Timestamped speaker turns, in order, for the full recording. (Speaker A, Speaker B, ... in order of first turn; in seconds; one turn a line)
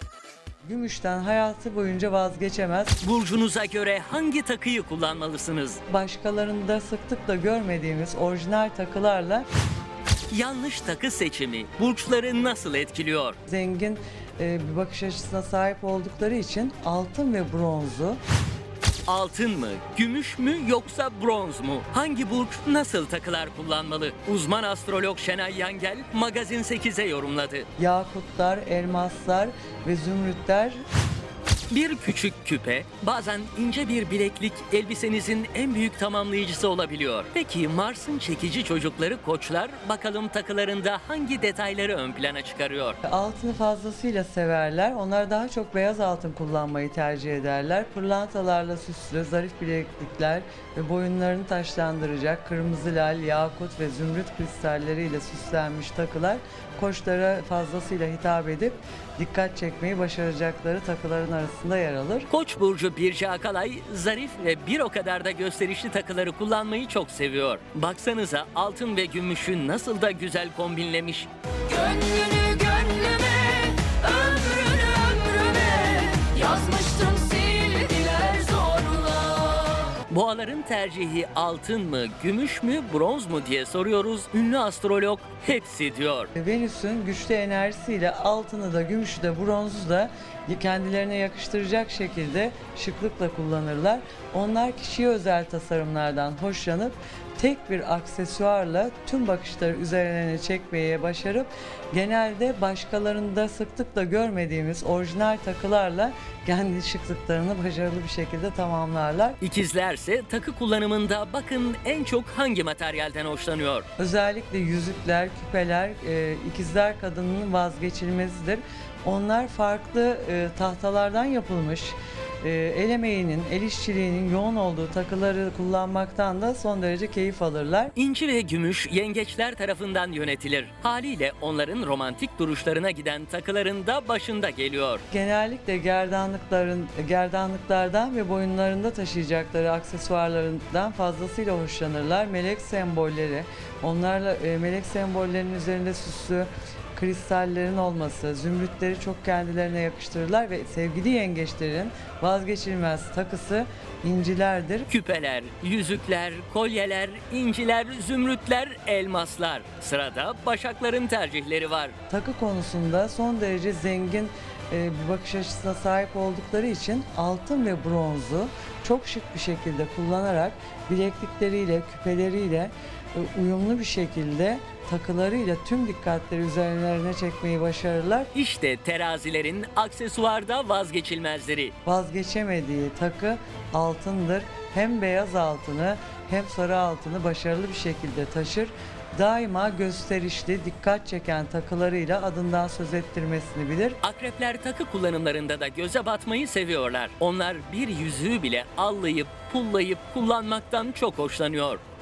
Speaker A: 0.6-3.0
Speaker B: 3.0-5.8
Speaker A: 5.9-9.5
Speaker B: 10.3-13.4
Speaker A: 13.5-18.2
Speaker B: 19.1-27.7
Speaker A: 27.8-30.8
Speaker B: 31.7-43.0
Speaker A: 43.0-62.3
Speaker B: 62.3-86.3
Speaker A: 86.3-109.4
Speaker B: 109.4-113.9
Speaker A: 114.0-127.9
Speaker B: 128.0-135.0
Speaker A: 135.1-154.9
Speaker B: 154.9-161.9
Speaker A: 162.1-178.3
Speaker B: 178.3-181.7
Speaker A: 181.8-194.0
Speaker B: 194.0-201.8